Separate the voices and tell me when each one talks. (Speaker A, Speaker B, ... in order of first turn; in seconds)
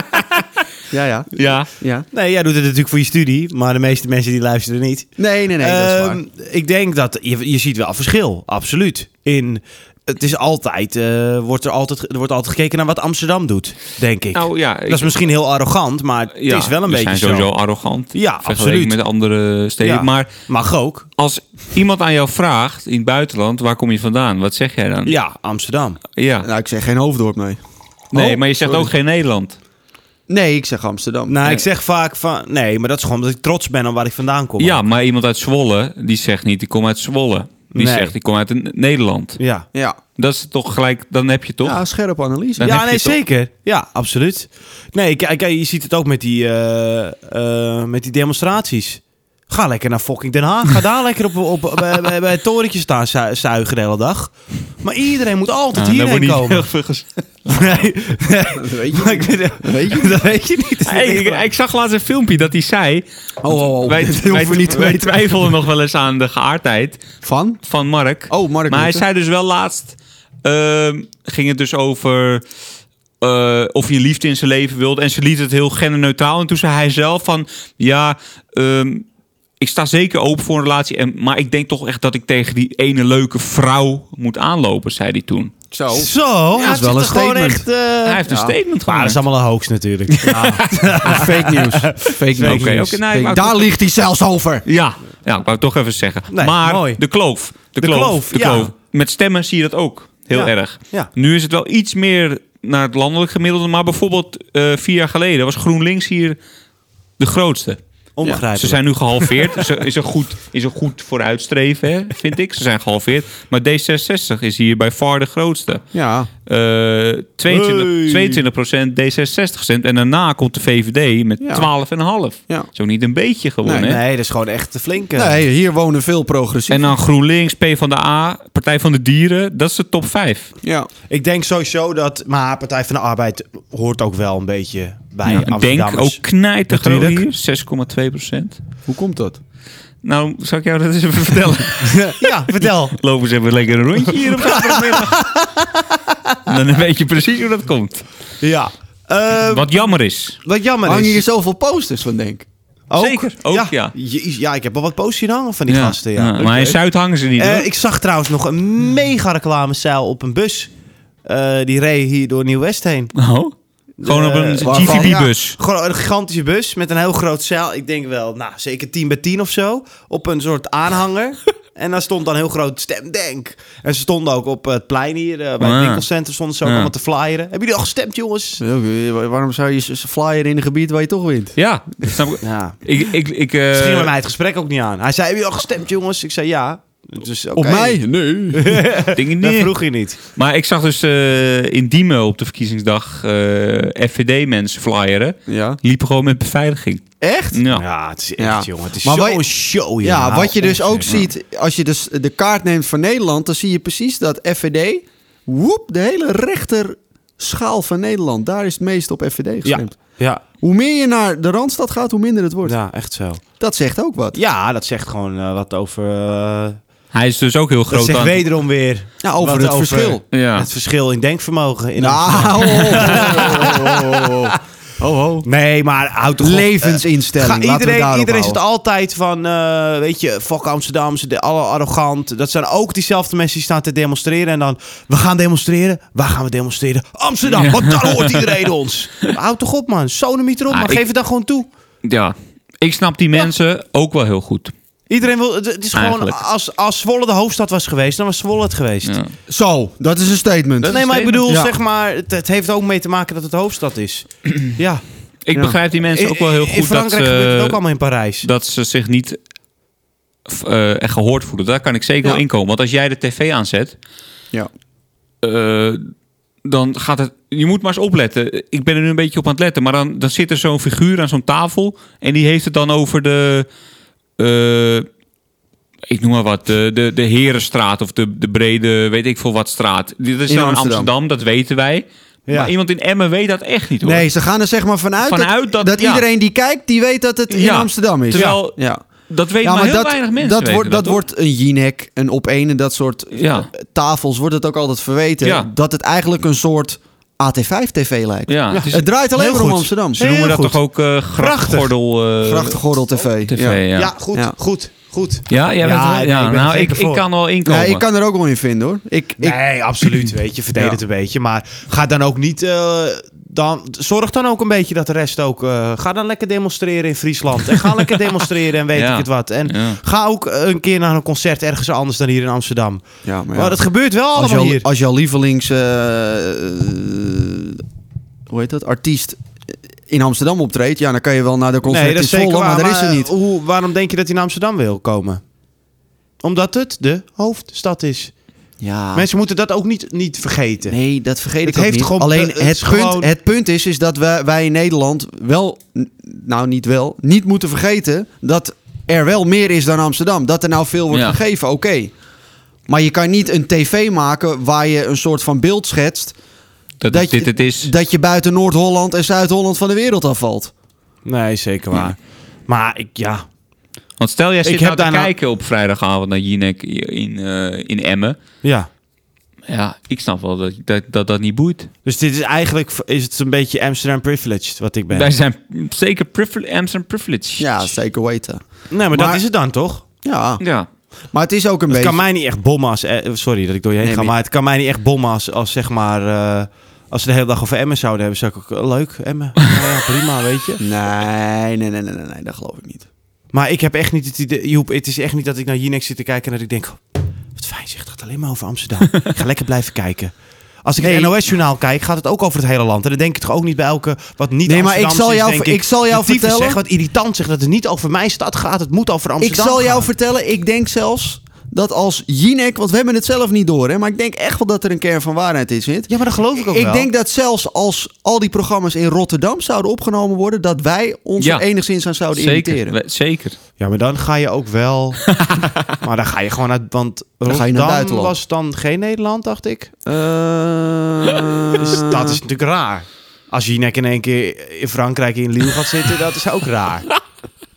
Speaker A: 0.9-2.0, 5.2-6.2, 26.4-27.6, 30.3-31.4, 41.6-42.7, 58.6-60.2, 63.4-65.4, 67.2-67.6, 68.3-69.0, 85.7-87.7, 88.2-88.5, 90.3-94.6, 115.9-116.3, 121.4-121.7, 123.6-123.9, 125.1-126.9, 130.6-130.9, 138.9-139.4, 150.8-152.4, 164.6-165.3, 178.6-181.6, 187.6-188.9, 195.5-195.8, 197.2-197.6, 198.4-199.4, 200.0-209.9, 210.6-212.8, 213.6-214.4, 219.2-220.2, 222.0-225.4, 226.4-228.6, 249.5-251.7, 280.5-281.1, 284.0-289.0, 289.6-300.2, 302.4-303.8, 307.6-309.6, 323.2-323.8, 324.3-327.8, 328.5-329.4, 330.1-333.3, 338.8-339.2, 340.9-352.1, 352.9-356.3, 357.1-360.7, 377.6-379.4, 380.2-380.6, 381.3-382.2, 384.0-384.3, 390.8-393.1, 401.0-401.4, 404.6-406.8, 409.4-422.9, 427.4-428.3, 430.1-432.4
Speaker B: 1.4-1.7, 14.3-15.2, 16.4-20.3, 21.2-25.1, 26.1-26.5, 28.1-29.6, 34.6-39.4, 40.2-41.8, 42.6-43.1, 55.8-57.9, 60.8-67.0, 67.6-72.4, 73.2-79.0, 79.6-85.5, 88.0-89.2, 90.2-91.2, 92.4-93.7, 94.7-106.4, 107.2-107.8, 108.5-115.8, 116.5-124.0, 126.7-130.5, 135.2-138.6, 140.0-145.4, 146.4-148.1, 149.5-150.4, 153.0-153.9, 155.7-157.7, 163.1-165.6, 175.6-176.0, 176.6-176.9, 181.6-184.1, 189.1-197.8, 217.1-218.4, 220.3-220.7, 237.5-238.4, 240.7-241.0, 242.0-244.7, 245.9-246.4, 249.0-249.3, 250.8-251.5, 255.4-257.8, 258.4-259.4, 260.4-263.9, 265.4-266.1, 266.6-273.7, 274.4-275.1, 276.1-284.3, 285.2-286.2, 287.5-291.2, 293.3-293.7, 295.4-295.7, 298.5-299.0, 300.1-302.8, 303.4-304.1, 305.5-308.0, 318.9-320.0, 357.0-357.9, 364.2-368.4, 369.7-371.9, 375.1-377.9, 380.6-380.9, 421.4-421.6, 422.3-423.6, 425.4-425.7
Speaker C: 2.1-17.5, 18.1-18.9, 19.8-21.1, 25.0-26.0, 28.1-28.9, 31.3-34.8, 37.7-38.1, 39.4-39.6, 42.6-56.6, 57.5-61.4, 85.9-88.2, 88.8-93.0, 96.3-97.0, 97.8-98.7, 100.3-101.1, 108.2-109.6, 117.5-118.4, 123.8-125.4, 131.1-137.2, 141.8-142.9, 144.1-146.4, 148.4-149.8, 150.4-151.2, 152.9-156.8, 157.4-160.7, 161.2-163.1, 164.0-178.6, 182.4-182.8, 183.7-188.0, 188.5-190.2, 197.7-201.2, 209.6-210.4, 212.6-213.4, 214.3-216.8, 217.9-224.6, 225.4-241.7, 245.1-249.2, 250.9-255.0, 256.1-258.5, 298.7-300.8, 301.3-301.9, 303.9-307.2, 309.4-324.9, 331.9-335.4, 336.4-338.3, 339.1-341.0, 341.6-343.3, 361.2-363.4, 364.6-365.3, 368.6-368.9, 372.0-375.3, 378.9-380.0, 381.9-390.8, 393.5-410.1, 416.1-417.1, 423.8-425.3, 426.0-429.9, 431.8-437.1